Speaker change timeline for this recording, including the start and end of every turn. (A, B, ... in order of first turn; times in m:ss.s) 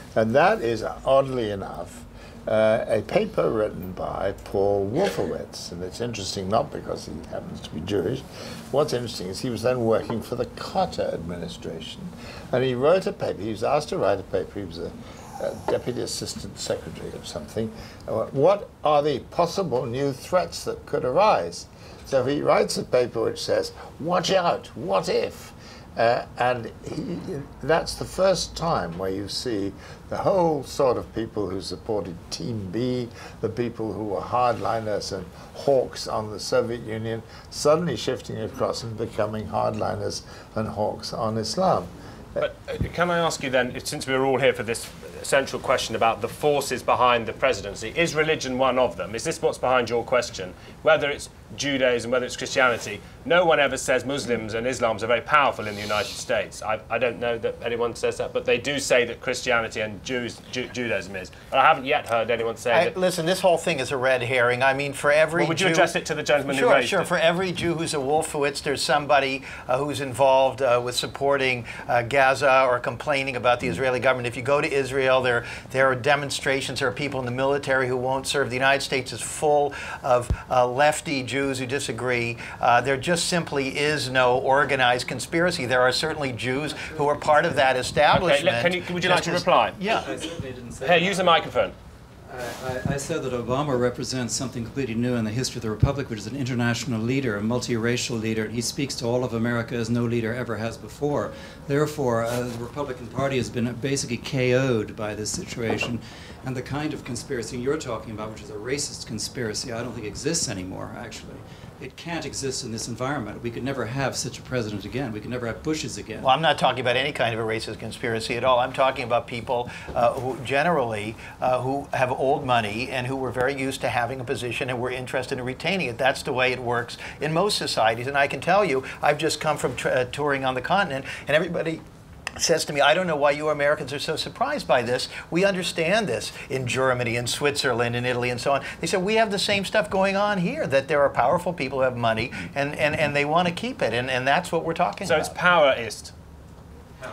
0:00.1-0:42.4 A
0:42.4-1:02.9 B
1:02.7-1:05.9 C
1:05.4-1:07.1 B
1:06.5-1:30.1 C
1:28.1-1:29.9 B
1:29.9-1:31.5 D
1:30.8-1:31.7 B
1:32.3-1:56.3 D
1:56.2-2:11.8 C
2:12.4-2:25.4 C
2:25.0-2:26.1 B